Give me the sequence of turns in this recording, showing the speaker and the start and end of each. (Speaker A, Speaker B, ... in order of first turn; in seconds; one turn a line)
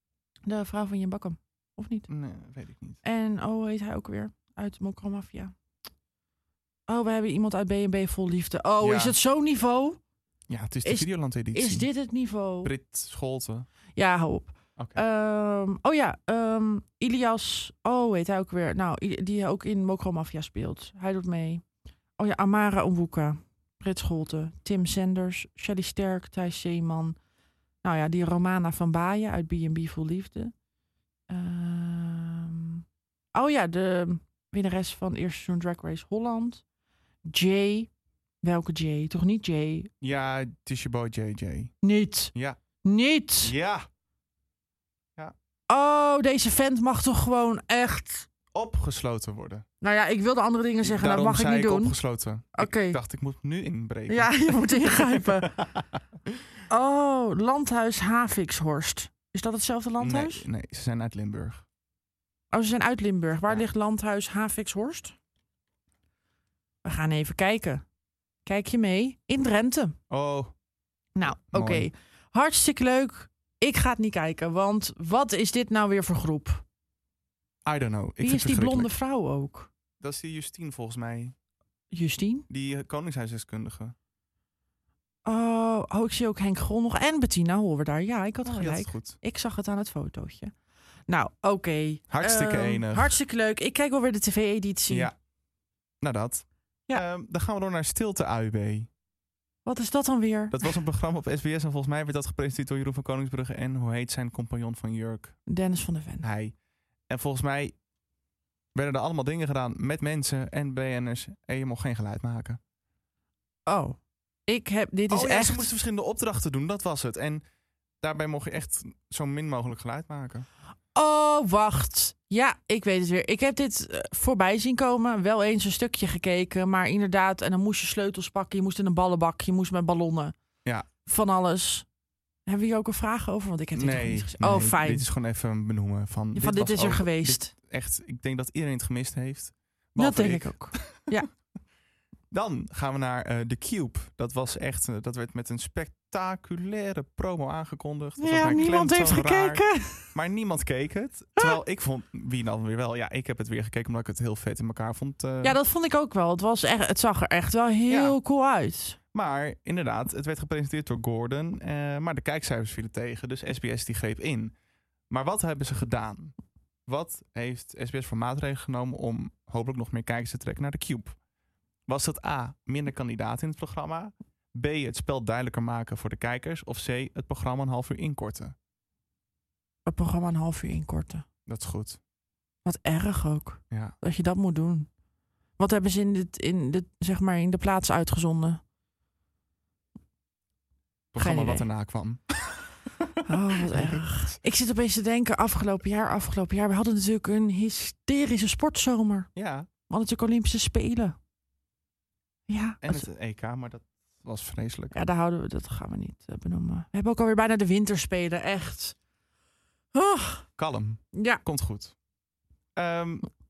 Speaker A: 0.5-2.1
Speaker B: 2.1-3.0
Speaker A: 3.0-5.5
Speaker A: 6.9-10.0
Speaker B: 8.8-9.2
Speaker B: 10.5-11.9
Speaker A: 10.8-12.7
Speaker B: 12.6-13.7
Speaker A: 13.9-21.6
Speaker B: 14.8-15.0
Speaker A: 22.2-27.1
Speaker A: 27.8-30.5
Speaker A: 31.3-32.8
Speaker A: 33.3-36.6
Speaker A: 37.2-37.9
Speaker A: 38.4-39.9
Speaker B: 40.0-41.7
Speaker A: 41.8-43.5
Speaker B: 42.3-42.6
Speaker B: 43.4-43.9
Speaker A: 45.7-48.3
Speaker B: 48.5-49.6
Speaker A: 49.8-52.0
Speaker B: 50.8-56.0
Speaker A: 52.5-53.0
Speaker A: 54.1-55.5
Speaker A: 56.7-60.4
Speaker B: 60.0-61.6
Speaker A: 62.5-65.1
Speaker A: 66.8-67.8
Speaker A: 68.5-70.0
Speaker B: 70.1-70.5
Speaker A: 71.2-76.6
Speaker B: 71.2-71.9
Speaker B: 77.6-78.9
Speaker A: 78.2-79.7
Speaker B: 80.0-81.3
Speaker A: 81.9-82.5
Speaker B: 82.5-83.9
Speaker A: 85.2-90.5
Speaker B: 88.4-89.2
Speaker A: 91.1-95.1
Speaker B: 92.1-93.2
Speaker B: 94.9-95.1
Speaker B: 96.0-98.9
Speaker A: 99.6-100.7
Speaker B: 100.5-105.4
Speaker A: 105.5-106.2
Speaker B: 106.2-106.5
Speaker B: 107.1-107.7
Speaker B: 108.7-112.6
Speaker A: 113.7-115.7
Speaker B: 115.1-117.4
Speaker B: 118.0-120.5
Speaker A: 120.9-130.3
Speaker A: 131.0-131.8
Speaker A: 132.4-135.1
Speaker B: 133.7-141.2
Speaker A: 136.3-137.5
Speaker A: 140.0-141.3
Speaker B: 142.3-155.6
Speaker A: 148.2-150.1
Speaker A: 155.4-159.0
Speaker B: 157.9-158.2
Speaker B: 159.1-164.5
Speaker B: 165.1-166.3
Speaker B: 166.9-171.2
Speaker B: 171.9-178.5
Speaker A: 179.8-181.2
Speaker B: 181.5-182.0
Speaker A: 182.6-184.9
Speaker B: 183.7-183.9
Speaker A: 185.6-188.6
Speaker B: 191.1-194.4
Speaker A: 191.2-191.7
Speaker A: 193.2-199.3
Speaker B: 199.3-199.7
Speaker A: 199.9-201.2
Speaker A: 202.5-203.1
Speaker B: 202.8-205.0
Speaker A: 204.9-208.9
Speaker A: 209.9-210.4
Speaker B: 210.6-211.9
Speaker A: 211.1-211.4
Speaker B: 212.8-213.3